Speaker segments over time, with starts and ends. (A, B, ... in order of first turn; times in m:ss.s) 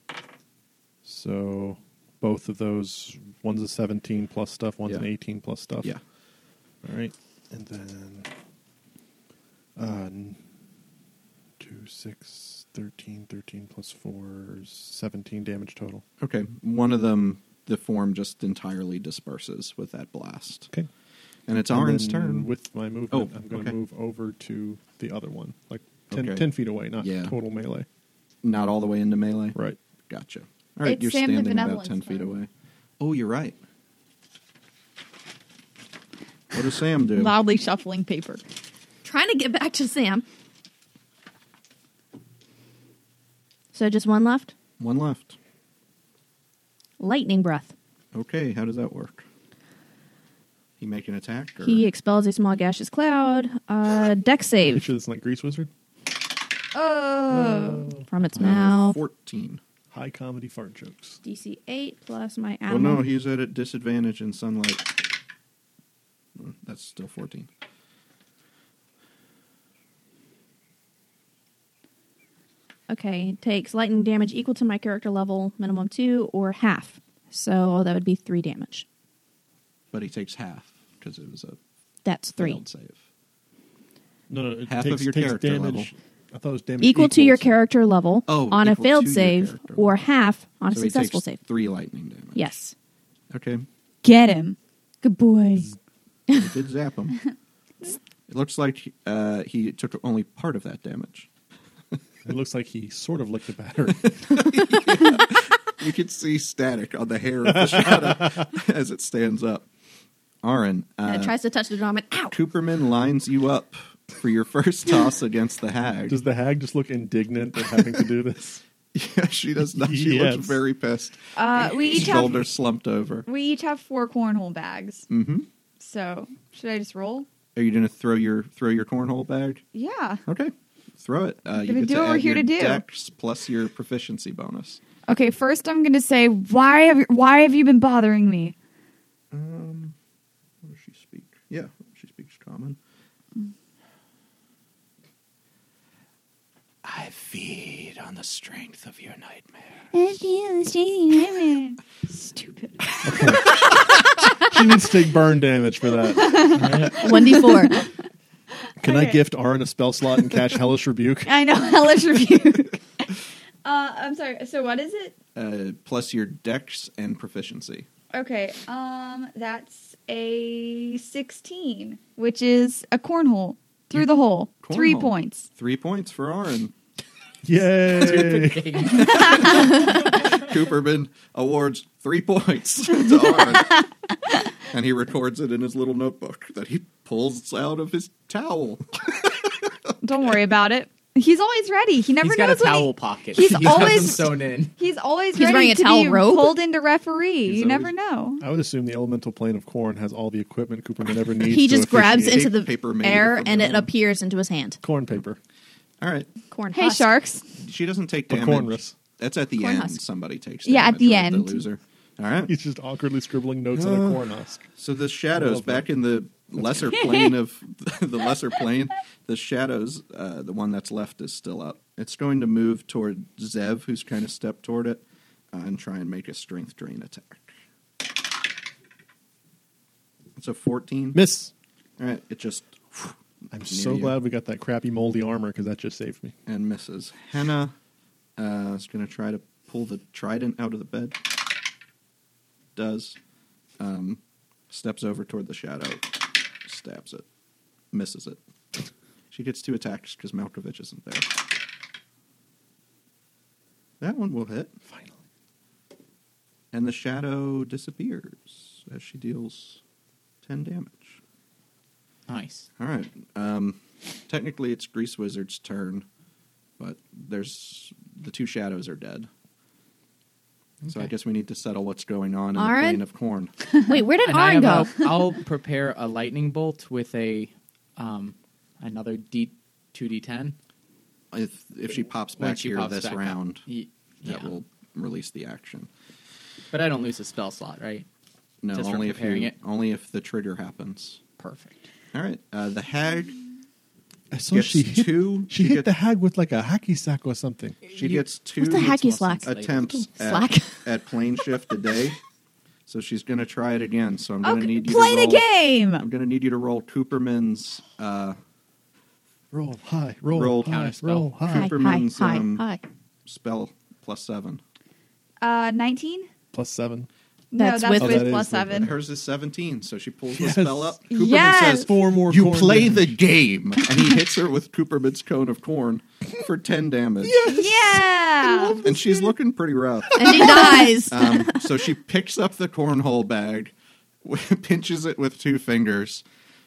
0:01.0-0:06.0 A
0:06.8-0:08.3 A
0:09.8-0:10.4 A
0:11.6-0:16.0 A
0:16.2-0:20.7 B
0:21.5-0:22.5 B
0:21.7-0:27.9 A
0:23.1-0:23.8 B
0:26.1-0:27.4 B
0:28.4-0:29.6 B
0:30.1-0:32.5 B
0:30.8-0:32.3 C
0:33.0-0:33.6 B
0:36.5-0:37.3 B
0:37.1-0:38.4 C
0:39.0-0:40.2 D
0:43.7-0:44.5 D
0:44.8-0:45.4 B
0:47.0-0:47.7 D
0:48.1-0:49.2 B
0:50.8-0:51.8 B
0:51.6-0:54.9 D
0:54.6-0:55.7 A
0:56.7-0:57.9 C
0:57.3-0:58.0 A
0:58.1-0:59.0 D
0:58.4-0:59.6 B
0:59.9-1:01.2 A
1:01.2-1:03.0 D
1:02.7-1:05.0 B
1:06.4-1:07.5 B
1:12.9-1:18.8 D
1:19.9-1:21.6 B
1:22.0-1:22.6 D
1:22.4-1:23.0 B
1:24.3-1:27.5 A
1:24.7-1:25.9 B
1:26.8-1:31.4 D
1:28.3-1:30.0 B
1:30.7-1:32.5 B
1:32.4-1:32.7 D
1:33.3-1:33.6 B
1:34.0-1:34.6 C
1:35.0-1:35.7 D
1:36.3-1:37.2 B
1:38.3-1:41.3 B
1:42.2-1:44.5 A
1:44.0-1:49.7 B
1:47.5-1:48.4 A
1:50.4-1:51.3 B
1:51.0-1:52.4 D
1:52.3-1:56.2 B
1:56.1-1:58.6 A
1:58.9-2:03.3 B
1:59.8-2:00.6 A
2:01.3-2:02.5 C
2:03.3-2:05.1 C
2:05.1-2:05.5 B
2:05.8-2:07.3 C
2:07.5-2:09.6 B
2:09.7-2:10.2 C
2:10.2-2:14.8 B
2:11.6-2:12.8 C
2:15.1-2:18.5 C
2:19.3-2:20.0 B
2:20.6-2:22.8 B
2:26.8-2:29.8 B
2:29.9-2:33.6 C
2:33.0-2:33.6 A
2:34.4-2:37.0 A
2:36.1-2:37.9 C
2:36.9-2:37.9 D
2:38.8-2:41.3 A
2:38.8-2:39.2 C
2:41.2-2:45.2 C
2:45.3-2:47.9 B
2:48.1-2:55.5 C
2:54.6-2:56.7 B
2:57.4-2:58.9 A
2:57.9-3:00.3 E
2:58.9-3:03.7 B
3:04.6-3:10.0 B
3:10.0-3:18.4 C
3:12.2-3:14.7 E
3:13.7-3:14.0 B
3:15.3-3:16.6 D
3:17.4-3:22.4 A
3:21.4-3:24.8 D
3:22.1-3:23.9 B
3:24.8-3:25.4 A
3:26.0-3:26.3 B
3:26.5-3:27.1 D
3:26.7-3:27.4 C
3:27.6-3:32.5 B
3:28.3-3:28.9 A
3:29.6-3:30.0 D
3:30.6-3:31.6 C
3:32.5-3:34.6 A
3:33.7-3:47.5 B
3:35.3-3:35.9 A
3:36.6-3:36.9 A
3:50.4-3:51.2 B
3:51.1-3:51.5 A
3:52.0-3:54.2 B
3:53.5-3:56.3 A
3:56.5-3:57.7 B
3:58.4-4:01.3 B
4:02.8-4:03.2 B
4:03.8-4:07.2 B
4:07.9-4:08.4 B
4:09.3-4:11.4 B
4:14.0-4:14.7 B
4:14.9-4:15.1 A
4:16.7-4:19.8 B
4:20.4-4:21.2 B
4:22.3-4:22.7 E
4:22.8-4:26.0 B
4:26.8-4:29.3 B
4:30.8-4:31.1 E
4:30.8-4:33.5 B
4:32.6-4:33.0 D
4:33.8-4:35.1 D
4:34.2-4:40.6 E
4:41.3-4:43.6 B
4:42.4-4:44.5 E
4:44.2-4:45.9 B
4:46.7-4:48.1 E
4:48.6-4:51.2 B
4:48.7-4:49.6 E
4:51.4-4:51.8 E
4:52.1-4:53.4 B
4:54.3-4:57.8 A
4:54.5-4:55.9 B
4:57.8-4:58.3 E
4:57.9-5:02.2 B
4:58.6-5:00.9 D
4:59.2-4:59.8 E
5:02.9-5:05.4 B
5:04.4-5:06.0 C
5:06.0-5:08.4 B
5:09.5-5:11.8 A
5:10.3-5:10.9 B
5:10.6-5:11.3 E
5:11.5-5:12.6 B
5:11.5-5:12.8 D
5:13.2-5:14.6 B
5:15.4-5:16.3 C
5:16.5-5:17.1 A
5:17.5-5:18.9 C
5:17.6-5:18.3 D
5:17.9-5:18.9 A
5:18.7-5:27.5 B
5:20.3-5:23.1 A
5:21.1-5:22.0 C
5:27.2-5:29.3 A
5:27.4-5:28.9 C
5:28.8-5:33.7 B
5:30.1-5:31.7 D
5:30.2-5:30.8 A
5:34.2-5:36.2 B